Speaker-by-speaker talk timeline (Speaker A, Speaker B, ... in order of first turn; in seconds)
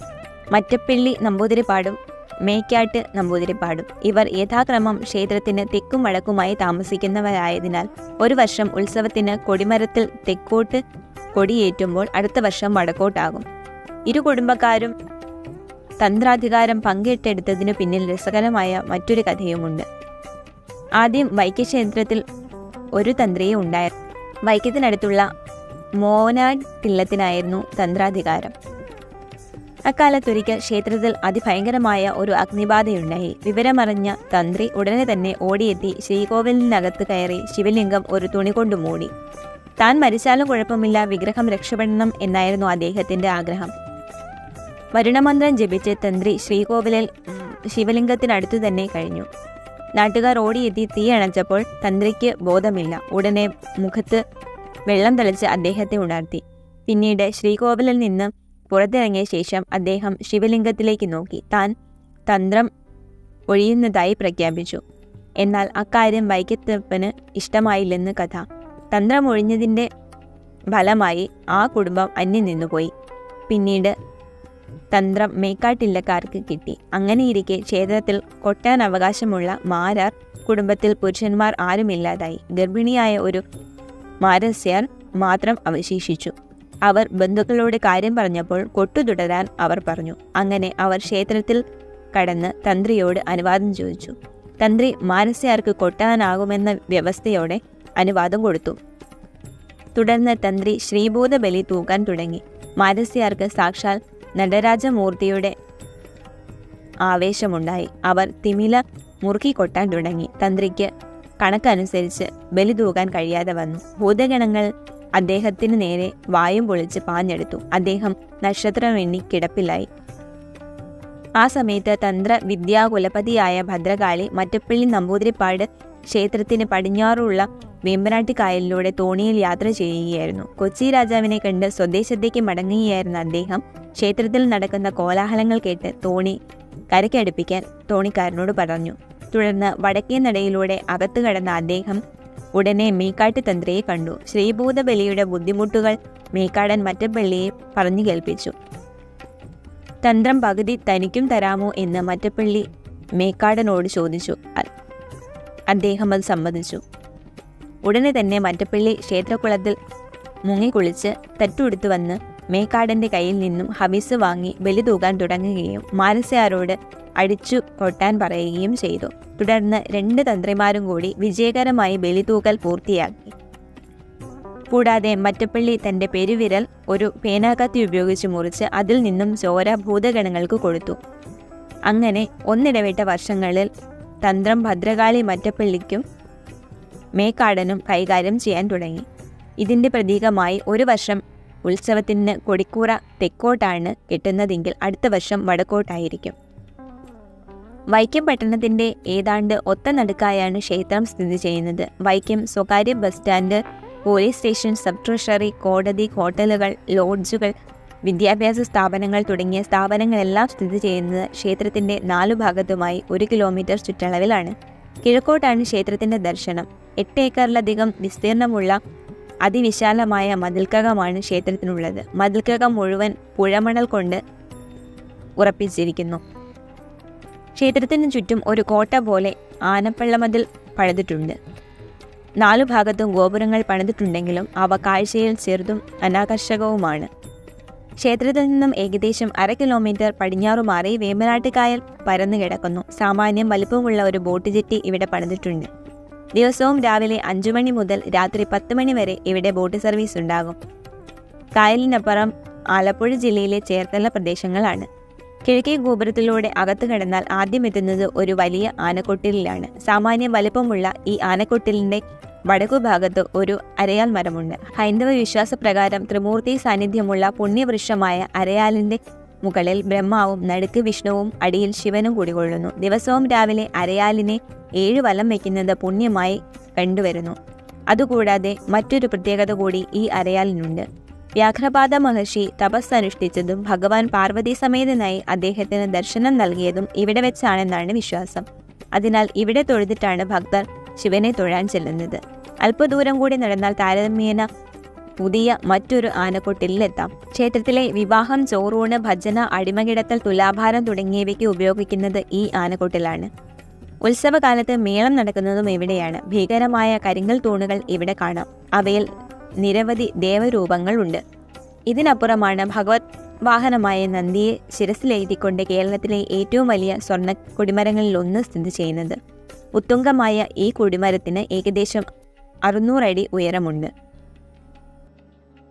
Speaker A: 0.5-10.8, 11.3-13.5, 14.1-14.9, 16.0-19.9, 21.0-22.2, 23.0-23.9, 24.5-25.3, 26.0-28.5, 29.9-39.1, 39.8-43.7, 45.0-49.3, 50.0-54.2, 54.9-61.7, 62.3-62.7, 63.5-64.8, 65.4-69.9, 70.7-72.9, 73.5-73.9, 74.9-83.4, 84.2-91.6, 92.1-98.8, 100.0-105.5, 107.1-110.9, 111.4-119.9, 121.4-136.4, 136.9-142.0, 142.6-148.6, 150.0-152.7, 153.2-154.7, 155.7-156.8, 157.8-159.8, 160.5-173.3, 174.7-181.0, 181.9-183.7, 184.2-186.0, 187.2-189.1, 189.6-196.3, 197.9-207.5, 208.1-218.8, 219.4-224.2, 225.4-226.2, 227.6-231.4, 232.4-237.1, 238.0-245.7, 246.4-250.6, 251.6-254.9, 255.4-277.4, 277.9-280.9, 281.4-294.5, 295.2-303.3, 304.0-309.1, 309.6-311.2, 311.9-319.2, 319.8-322.1, 322.7-323.9